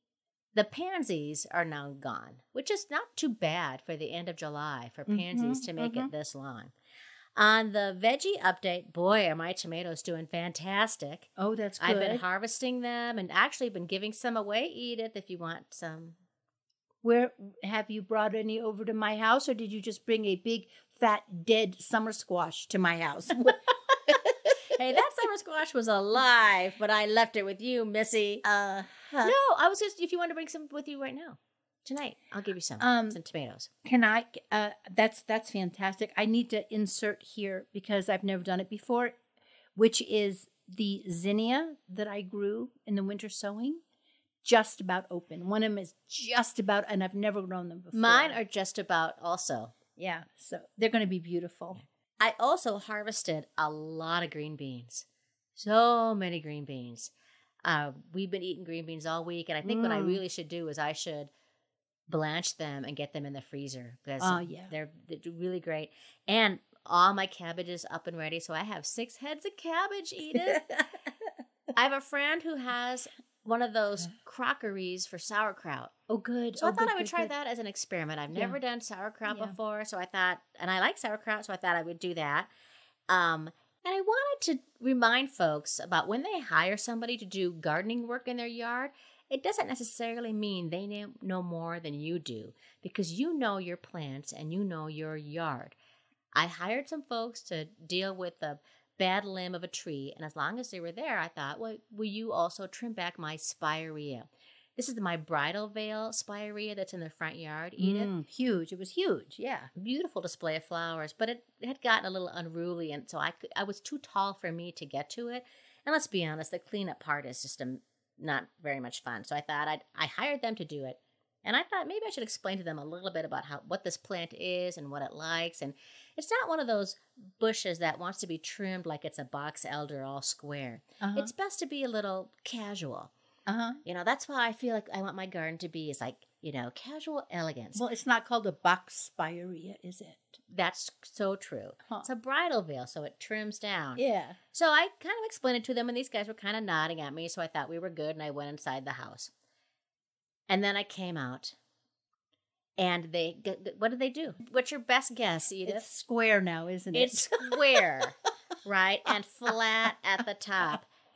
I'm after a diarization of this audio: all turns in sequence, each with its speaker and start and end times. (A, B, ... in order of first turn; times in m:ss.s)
0:00.6-0:06.7 A
0:05.1-0:06.1 B
0:07.4-0:16.2 A
0:11.4-0:12.2 B
0:17.0-0:24.3 B
0:24.6-0:33.7 A
0:32.8-0:33.2 B
0:33.8-0:39.2 B
0:39.8-0:43.8 B
0:44.4-0:48.4 B
0:47.9-0:49.7 A
0:50.0-0:51.8 B
0:52.2-0:57.1 A
0:57.6-1:01.3 A
0:59.6-1:00.2 B
1:02.1-1:10.6 A
1:04.2-1:04.7 B
1:10.4-1:11.1 B
1:11.8-1:15.9 A
1:16.1-1:17.3 B
1:16.6-1:22.5 A
1:18.3-1:18.6 B
1:19.3-1:19.6 B
1:23.1-1:35.7 A
1:36.4-1:48.1 A
1:47.8-1:49.7 B
1:49.8-2:13.1 A
2:11.0-2:11.3 B
2:13.5-2:13.8 B
2:13.8-2:17.8 A
2:17.8-2:20.4 B
2:20.5-2:29.3 A
2:24.0-2:24.4 B
2:30.5-2:31.6 A
2:32.8-2:35.8 A
2:35.7-2:37.8 B
2:36.9-2:40.9 A